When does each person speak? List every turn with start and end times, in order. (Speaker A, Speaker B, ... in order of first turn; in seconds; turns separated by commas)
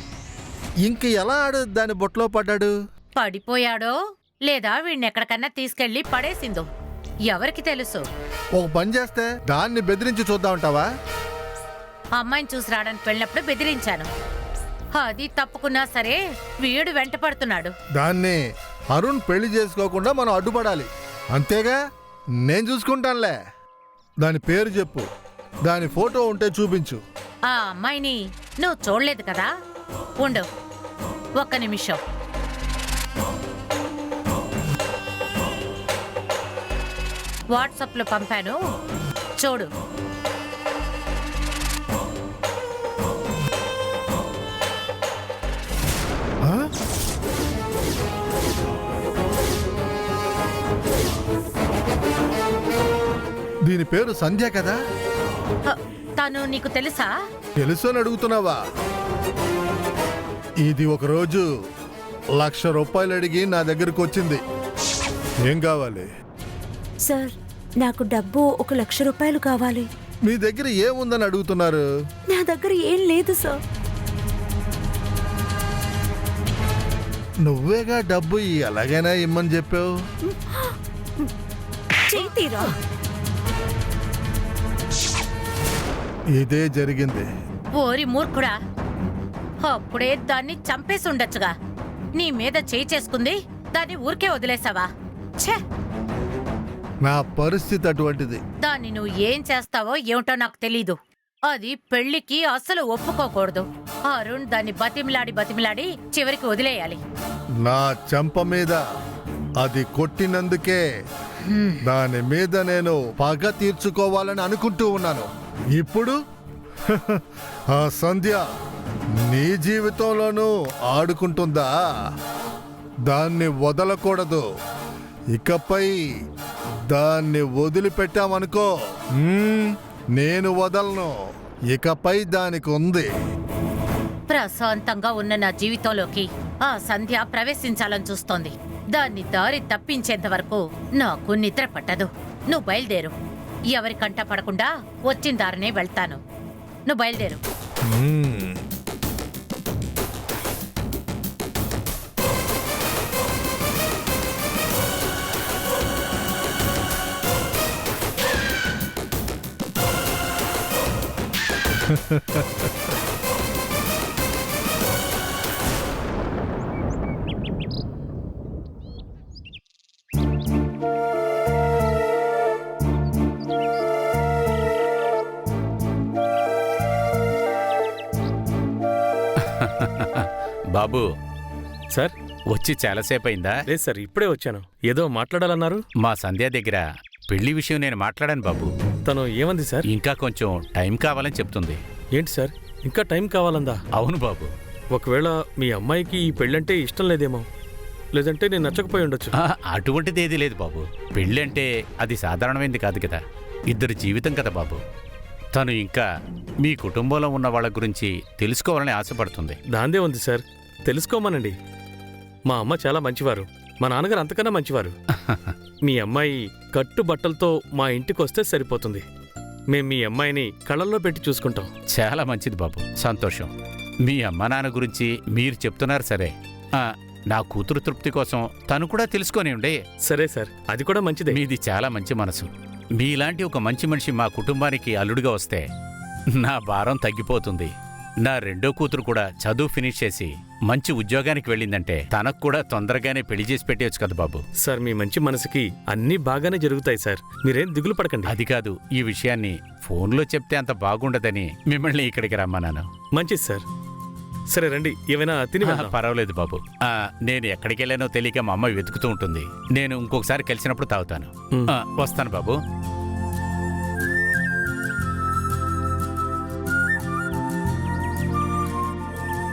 Speaker A: 0.9-2.7, Speaker B: 3.2-6.7, Speaker B: 7.3-8.1, Speaker A: 8.6-10.9, Speaker B: 12.2-14.1, Speaker B: 14.9-17.7, Speaker A: 18.0-18.4, Speaker A: 18.9-21.8, Speaker A: 22.5-23.4, Speaker A: 24.2-25.1, Speaker A: 25.7-27.0, Speaker B: 27.5-29.5, Speaker B: 30.2-30.5, Speaker B: 31.4-32.0, Speaker B: 37.5-38.6, Speaker B: 39.4-39.7, Speaker A: 53.7-54.8, Speaker B: 55.7-57.1, Speaker A: 57.6-58.6, Speaker A: 60.6-61.5, Speaker A: 62.4-64.4, Speaker A: 65.5-66.1, Speaker C: 67.1-69.9, Speaker A: 70.3-71.8, Speaker C: 72.3-73.6, Speaker A: 77.4-79.9, Speaker C: 82.1-82.7, Speaker A: 86.4-87.3, Speaker B: 87.8-88.6, Speaker B: 89.6-91.5, Speaker B: 92.2-95.6, Speaker A: 97.0-98.4, Speaker B: 98.6-101.0, Speaker B: 101.5-107.0, Speaker A: 107.6-108.8, Speaker A: 109.6-110.8, Speaker A: 111.9-116.2, Speaker A: 116.9-117.2, Speaker A: 117.7-118.5, Speaker A: 119.3-121.7, Speaker A: 123.1-124.5, Speaker A: 125.3-125.9, Speaker A: 126.9-128.7, Speaker A: 129.2-131.2, Speaker A: 131.7-133.1, Speaker B: 134.3-143.2, Speaker B: 143.7-146.2, Speaker B: 146.9-147.4, Speaker A: 148.0-148.4, Speaker A: 161.9-162.7, Speaker D: 179.4-181.0, Speaker D: 182.5-183.6, Speaker E: 183.7-185.8, Speaker D: 186.0-188.7, Speaker E: 189.1-189.9, Speaker D: 189.9-191.8, Speaker E: 192.2-193.8, Speaker D: 194.0-194.5, Speaker E: 194.9-197.5, Speaker E: 198.2-199.3, Speaker D: 199.4-204.8, Speaker D: 205.6-206.1, Speaker D: 206.6-209.6, Speaker E: 209.7-211.6, Speaker E: 212.5-214.9, Speaker D: 215.3-215.5, Speaker E: 215.9-219.1, Speaker E: 219.7-221.7, Speaker D: 221.9-223.5, Speaker D: 224.1-229.8, Speaker E: 230.0-231.4, Speaker D: 231.3-235.7, Speaker D: 236.4-237.7, Speaker D: 238.2-244.4, Speaker E: 244.6-248.3, Speaker D: 248.2-252.9, Speaker E: 253.2-253.6, Speaker E: 254.5-256.0, Speaker D: 255.6-262.6